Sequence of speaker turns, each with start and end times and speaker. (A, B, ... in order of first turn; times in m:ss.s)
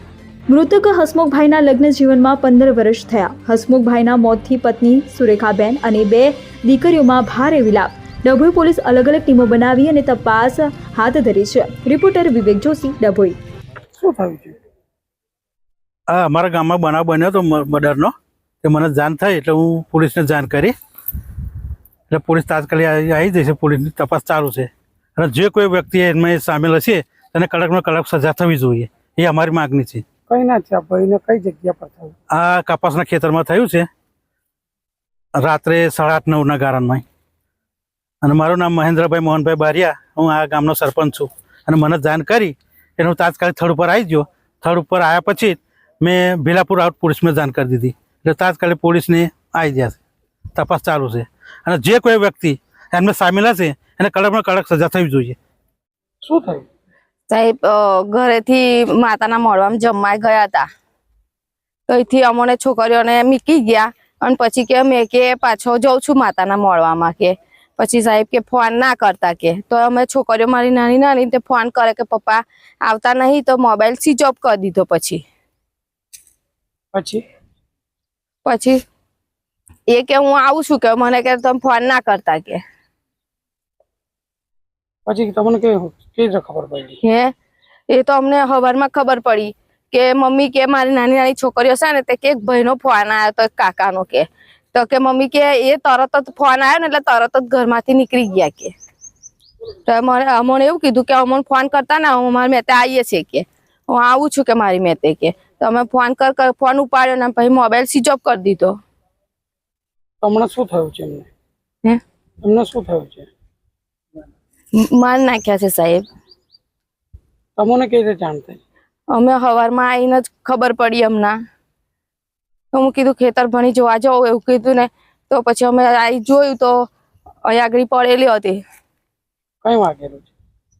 0:00.5-0:13.4 A
0:14.0-0:14.6 B
0:16.1-0:20.7 C
0:22.1-0:30.0 C
0:30.3-0:32.1 B
0:32.3-0:33.9 C
0:35.4-0:37.0 C
0:38.2-0:50.0 C
0:50.6-0:55.4 C
0:56.2-0:56.6 B
0:57.3-1:00.7 D
1:01.9-1:15.2 D
1:16.9-1:17.2 B
1:18.4-1:18.8 D
1:19.9-1:22.6 D
1:25.0-1:27.0 B
1:27.0-1:27.3 D
1:27.9-1:38.7 D
1:39.9-1:48.7 D
1:50.2-1:51.3 B
1:52.4-1:53.3 B
1:54.7-1:56.0 D
1:57.6-1:58.6 B
1:59.1-2:01.4 D
2:02.7-2:06.9 D
2:07.4-2:08.6 D
2:09.6-2:10.3 B